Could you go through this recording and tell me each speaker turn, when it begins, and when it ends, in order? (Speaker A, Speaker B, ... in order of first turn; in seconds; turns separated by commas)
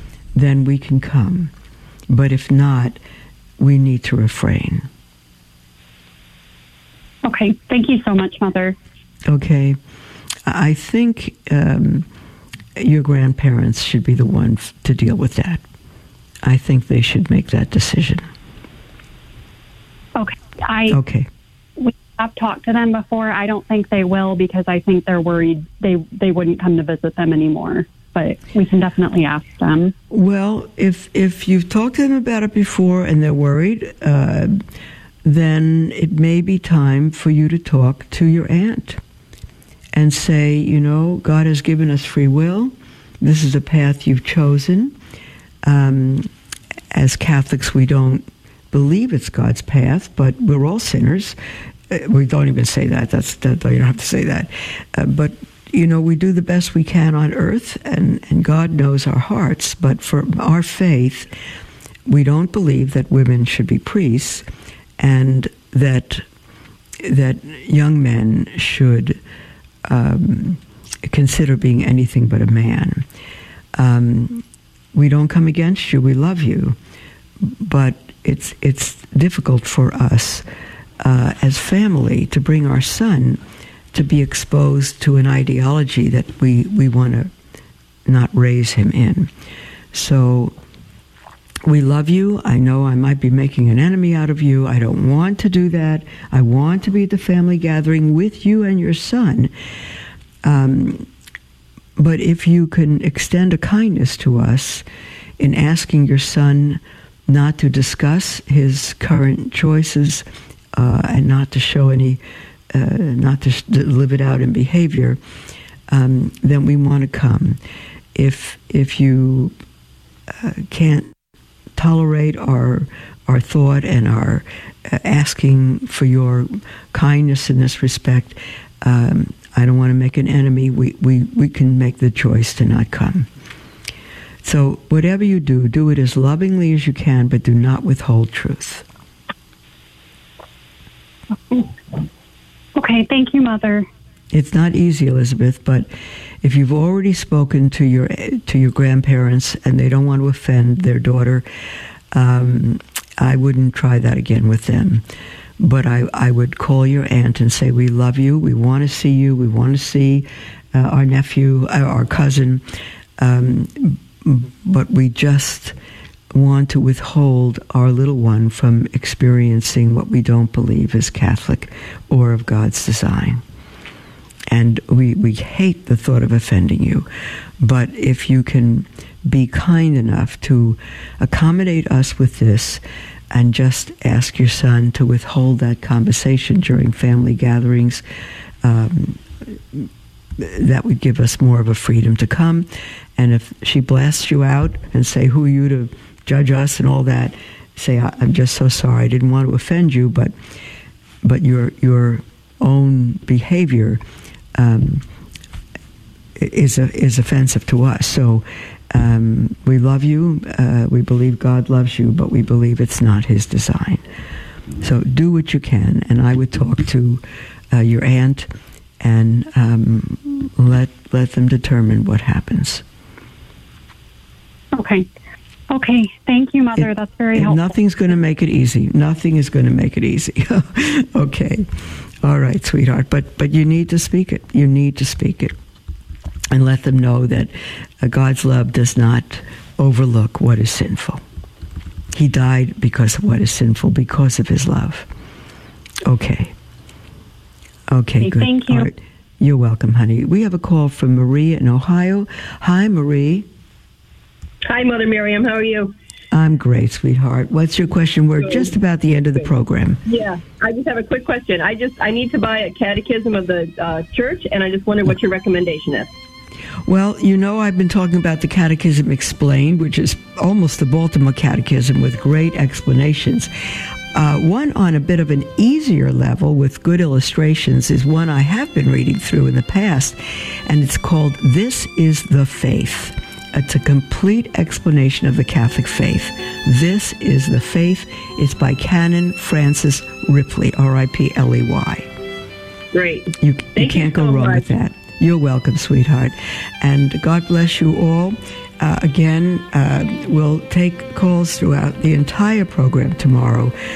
Speaker A: 0.3-1.5, Speaker A: 2.1-3.0, Speaker A: 3.6-4.9, Speaker B: 7.2-8.8, Speaker A: 9.3-9.8, Speaker A: 10.5-12.1, Speaker A: 12.8-15.6, Speaker A: 16.4-18.3, Speaker B: 20.2-21.0, Speaker A: 20.9-21.3, Speaker B: 21.8-29.9, Speaker A: 30.1-34.6, Speaker A: 35.2-39.0, Speaker A: 39.9-45.0, Speaker A: 45.6-46.3, Speaker A: 46.9-51.4, Speaker A: 51.9-61.3, Speaker A: 62.1-64.5, Speaker A: 65.0-66.3, Speaker A: 67.0-69.2, Speaker A: 69.8-73.1, Speaker A: 73.8-76.8, Speaker A: 77.4-80.4, Speaker A: 81.0-83.4, Speaker A: 83.9-87.3, Speaker A: 88.1-89.3, Speaker A: 89.9-90.5, Speaker A: 91.6-99.5, Speaker A: 100.4-101.1, Speaker A: 102.0-104.8, Speaker A: 105.4-112.2, Speaker A: 112.7-115.2, Speaker A: 115.9-117.6, Speaker A: 118.1-119.5, Speaker A: 120.3-121.1, Speaker A: 121.8-133.3, Speaker A: 134.4-138.8, Speaker B: 141.5-142.1, Speaker B: 142.8-143.9, Speaker A: 144.3-145.9, Speaker A: 146.4-151.5, Speaker A: 152.1-155.1, Speaker A: 155.6-162.6, Speaker A: 163.2-165.8, Speaker A: 166.3-173.4, Speaker A: 174.5-177.1, Speaker A: 177.6-188.0, Speaker A: 188.6-200.3, Speaker A: 201.2-204.0, Speaker A: 204.6-205.1, Speaker A: 206.4-214.0, Speaker A: 214.8-218.5, Speaker A: 219.0-222.8, Speaker B: 224.7-225.1, Speaker B: 225.7-227.8, Speaker A: 226.8-231.7, Speaker A: 232.2-235.6, Speaker A: 236.5-241.2, Speaker A: 242.1-245.1, Speaker A: 246.0-246.5, Speaker A: 247.9-253.5, Speaker B: 248.2-248.9, Speaker C: 254.6-255.9, Speaker A: 256.3-260.0, Speaker C: 258.4-258.7, Speaker C: 260.1-266.1, Speaker A: 266.9-273.5, Speaker A: 274.1-292.1, Speaker C: 292.9-294.7, Speaker A: 293.4-303.8